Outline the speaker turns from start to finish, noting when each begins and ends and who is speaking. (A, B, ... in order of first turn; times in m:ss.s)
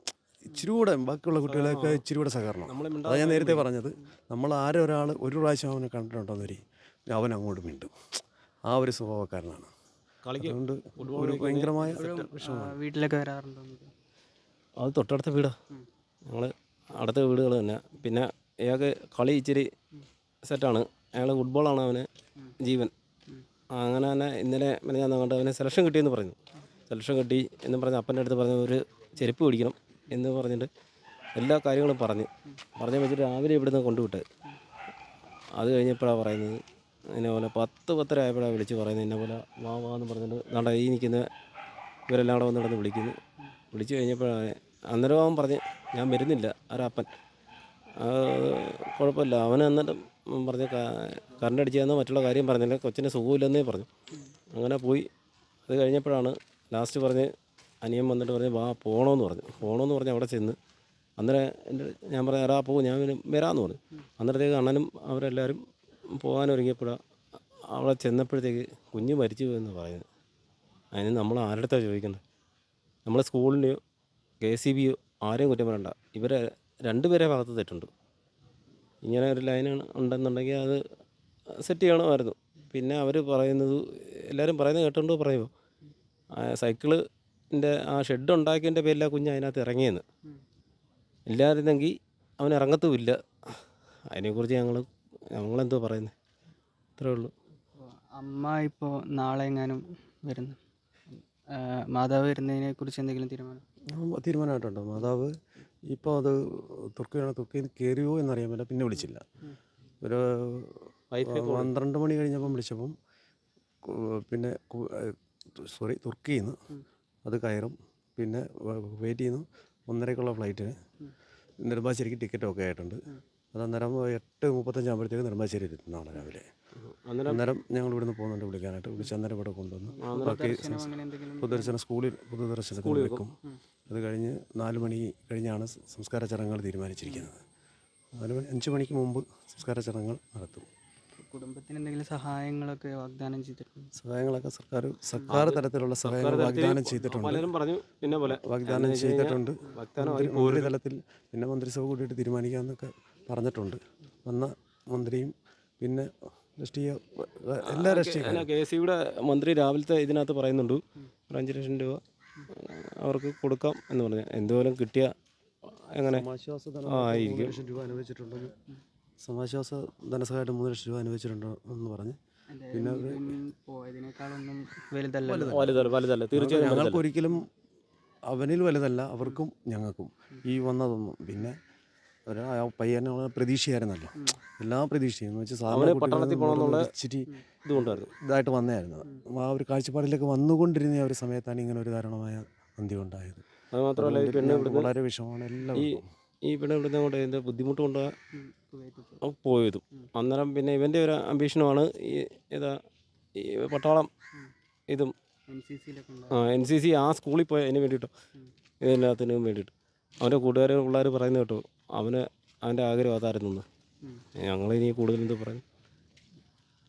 0:00.4-0:07.9 A
0:01.5-0:02.0 B
0:02.7-0:03.6 B
0:08.7-0:09.7 A
0:10.2-0:12.2 B
0:10.4-0:12.8 A
0:12.0-0:13.9 C
0:14.8-0:15.5 B
0:16.3-0:19.7 B
0:20.4-0:22.1 B
0:22.6-0:22.9 B
0:23.8-0:26.4 B
0:26.9-0:30.7 B
0:31.4-0:34.2 B
0:35.6-0:36.6 B
0:37.1-0:41.2 B
0:42.1-0:43.2 B
0:43.7-0:47.1 B
0:48.0-0:53.9 B
0:54.5-0:55.1 B
0:55.7-0:57.3 B
0:57.8-1:00.6 B
1:01.2-1:05.6 B
1:06.2-1:07.0 B
1:07.7-1:10.0 B
1:10.9-1:12.2 B
1:13.0-1:13.8 B
1:14.4-1:17.9 B
1:19.0-1:20.8 B
1:21.6-1:25.5 B
1:26.4-1:27.0 B
1:27.5-1:30.0 B
1:31.3-1:33.2 B
1:34.1-1:36.1 B
1:37.0-1:37.3 B
1:37.8-1:40.6 C
1:41.5-1:43.6 C
1:43.9-1:45.3 A
1:45.9-1:49.2 A
1:50.0-1:52.9 A
1:51.1-1:51.7 B
1:53.8-1:56.6 A
1:57.2-2:00.7 A
2:01.6-2:03.0 A
2:03.5-2:06.5 A
2:06.8-2:07.4 B
2:07.3-2:13.3 A
2:10.0-2:11.7 C
2:10.0-2:10.5 B
2:12.8-2:13.2 B
2:13.9-2:17.4 A
2:18.1-2:20.7 A
2:21.2-2:23.9 C
2:24.0-2:27.5 A
2:25.3-2:30.7 B
2:28.3-2:38.5 A
2:37.6-2:45.1 B
2:45.7-2:46.2 B
2:46.1-2:48.5 A
2:46.9-2:47.6 B
2:49.2-2:52.2 A
2:52.5-2:55.8 C
2:52.7-2:53.4 A
2:55.2-2:55.8 A
2:55.5-2:57.0 B
2:56.3-2:57.5 A
2:58.3-3:01.6 A
3:02.3-3:13.4 A
3:05.7-3:06.9 B
3:07.6-3:08.1 B
3:13.7-3:14.9 B
3:14.0-3:16.1 A
3:16.4-3:18.1 B
3:18.3-3:19.2 C
3:19.2-3:22.8 B
3:23.4-3:24.1 B
3:25.5-3:26.4 C
3:26.3-3:28.1 B
3:28.8-3:33.6 B
3:34.4-3:35.6 B